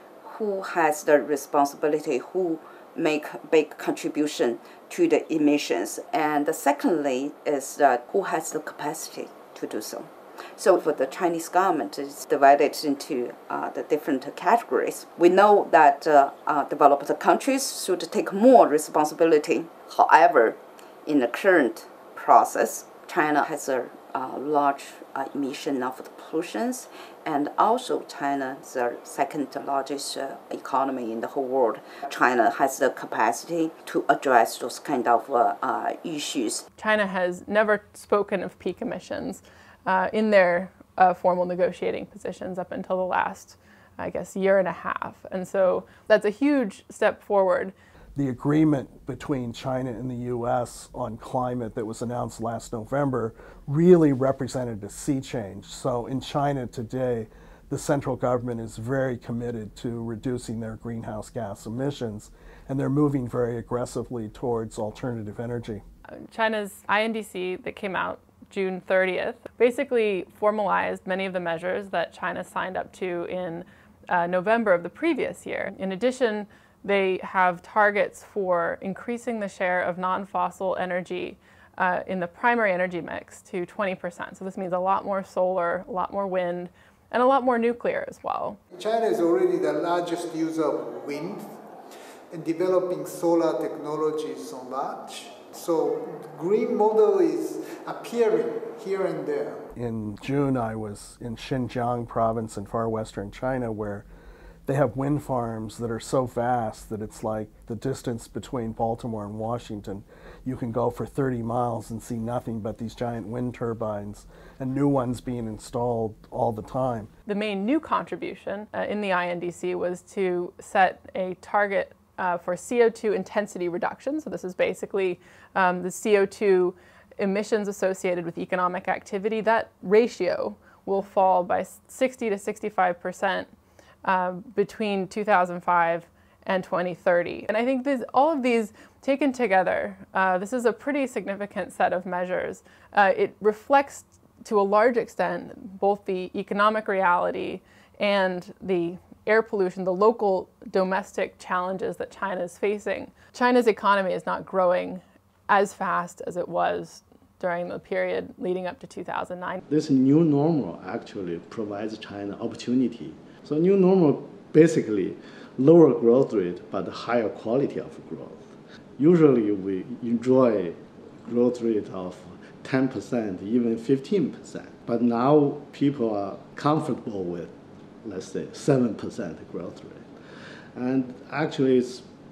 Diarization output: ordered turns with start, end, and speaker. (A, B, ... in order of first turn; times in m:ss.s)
0:00.2-0:36.6 A
0:36.8-0:47.7 B
0:48.2-1:05.8 C
1:06.2-1:28.6 B
1:28.7-1:31.7 D
1:32.3-1:39.6 D
1:39.8-1:44.0 C
1:44.6-1:57.1 C
1:57.2-2:13.5 B
2:14.0-2:39.6 B
2:39.7-3:00.1 E
3:00.7-3:02.1 E